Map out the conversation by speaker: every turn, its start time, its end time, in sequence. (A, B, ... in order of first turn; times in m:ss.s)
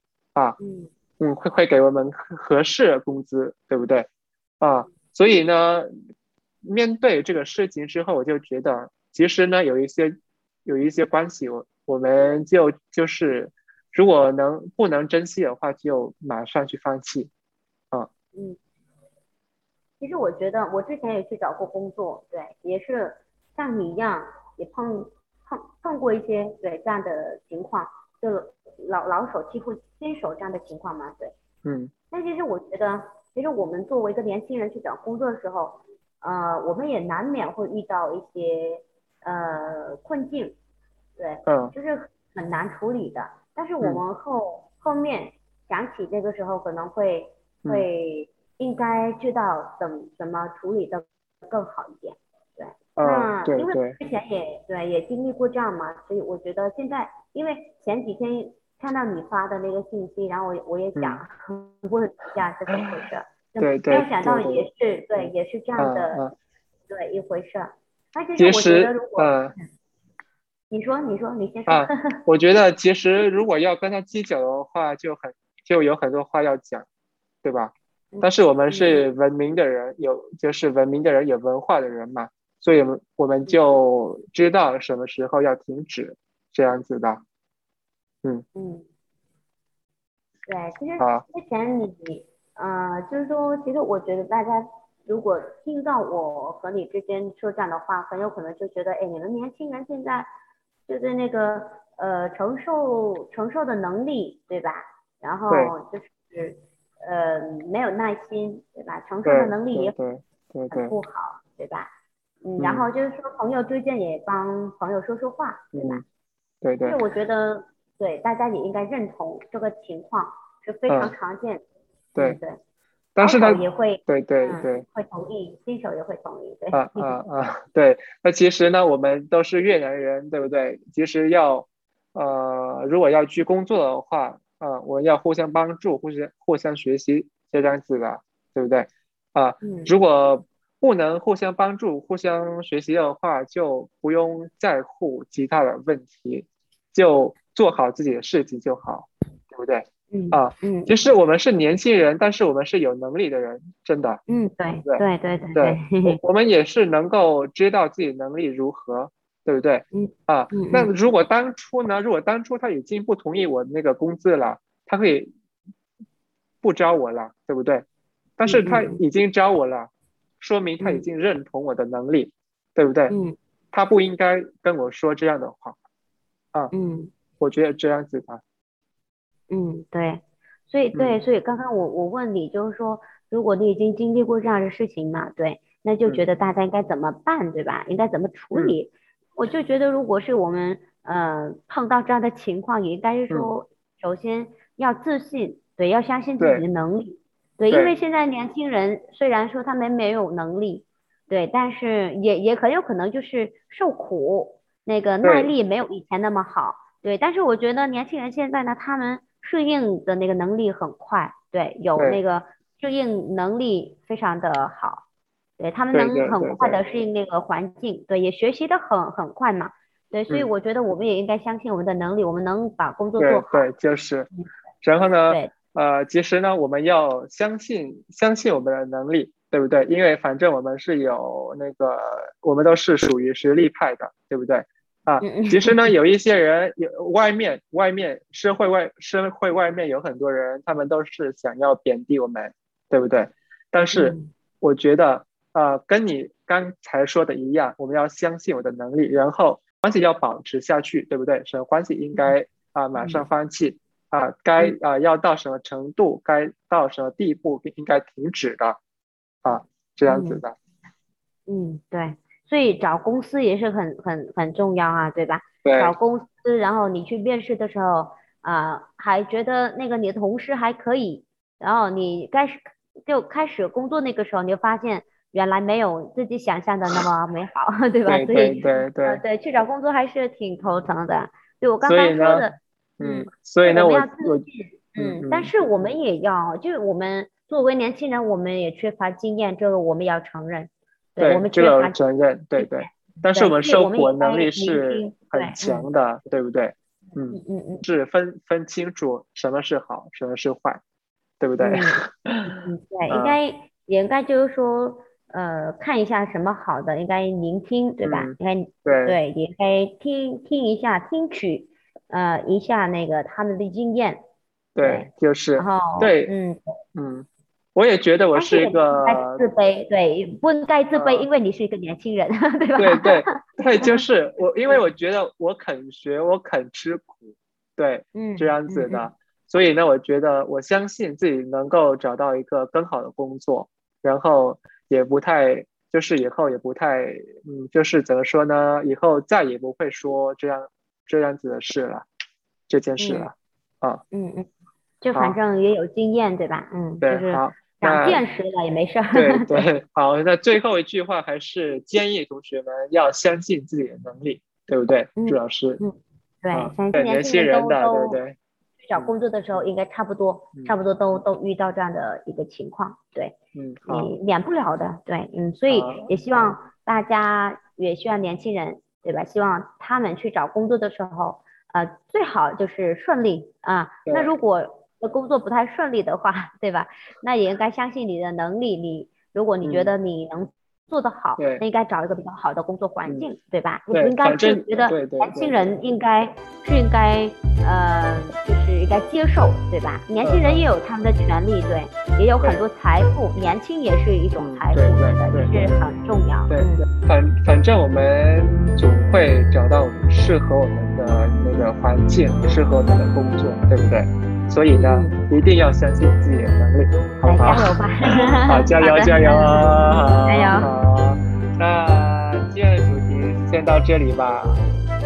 0:00.6-0:00.9 A
0:01.2-0:04.1 B
0:04.6-0:05.9 B
0:06.6-0:17.3 B
0:20.0-0:31.3 A
0:31.6-0:31.9 B
0:32.1-0:40.6 A
0:41.2-1:06.2 A
0:41.5-0:41.7 B
0:53.0-0:54.0 B
1:01.0-1:01.2 B
1:03.6-1:04.7 B
1:05.2-1:06.3 B
1:06.9-1:09.6 A
1:08.4-1:09.5 B
1:10.7-1:12.0 A
1:11.7-1:16.9 B
1:17.4-1:27.2 B
1:18.1-1:19.0 A
1:28.6-1:28.9 A
1:30.5-1:40.3 A
1:31.0-1:31.2 B
1:40.9-1:50.0 A
1:49.2-1:50.9 B
1:50.7-1:51.9 A
1:52.4-1:56.0 A
1:52.6-1:52.9 B
1:55.7-1:56.0 B
1:56.6-1:57.0 B
1:56.8-2:01.6 A
2:00.9-2:01.2 B
2:02.2-2:02.6 A
2:03.2-2:04.8 B
2:03.2-2:07.2 A
2:06.7-2:34.2 B
2:19.6-2:19.9 A
2:30.1-2:30.9 A
2:34.3-2:36.2 A
2:35.6-2:45.3 B
2:39.9-2:40.9 A
2:46.6-2:47.8 B
2:48.4-2:53.2 B
2:48.5-2:49.0 A
2:50.8-2:51.1 A
2:53.1-2:53.4 A
2:53.7-2:55.8 B
2:56.7-2:57.1 A
2:57.4-2:58.4 B
2:59.5-3:35.0 A
3:00.9-3:01.2 B
3:16.4-3:16.6 B
3:25.2-3:25.5 B
3:35.6-3:43.7 A
3:35.9-3:36.8 B
3:43.2-3:44.3 B
3:44.8-4:18.8 B
3:45.3-3:45.5 A
3:55.2-3:55.8 A
4:03.9-4:04.3 A
4:13.0-4:13.3 A
4:19.4-4:20.6 B
4:20.0-4:20.4 A
4:21.5-4:52.0 A
4:25.6-4:26.0 B
4:38.1-4:39.2 B
4:41.8-4:42.5 B
4:43.0-4:44.4 B
4:45.0-4:45.5 B
4:51.2-5:00.8 B
4:52.6-4:55.9 A
4:57.3-4:57.8 A
5:01.4-5:02.5 B
5:01.6-5:14.2 A
5:03.1-5:03.4 B
5:08.0-5:08.3 B
5:08.8-5:09.2 B
5:14.8-5:16.3 B
5:14.8-5:16.7 A
5:17.0-5:19.4 B
5:18.3-5:23.9 A
5:20.9-5:21.3 B
5:22.8-5:42.1 B
5:28.2-5:29.0 A
5:42.7-5:44.0 B
5:43.0-5:43.3 A
5:44.1-5:44.5 A
5:45.0-5:49.7 A
5:47.0-5:48.2 B
5:49.1-5:55.8 B
5:55.2-5:58.2 A
5:56.5-5:58.4 B
5:58.8-6:03.4 A
6:03.6-6:04.1 B
6:03.9-6:36.8 A
6:05.7-6:06.5 B
6:14.1-6:14.4 B
6:19.6-6:19.9 B
6:21.4-6:21.6 B
6:23.9-6:25.7 B
6:30.2-6:30.6 B
6:34.4-6:35.7 B
6:36.5-6:47.8 B
6:44.7-6:45.3 A
6:47.3-6:50.7 A
6:48.5-6:54.6 B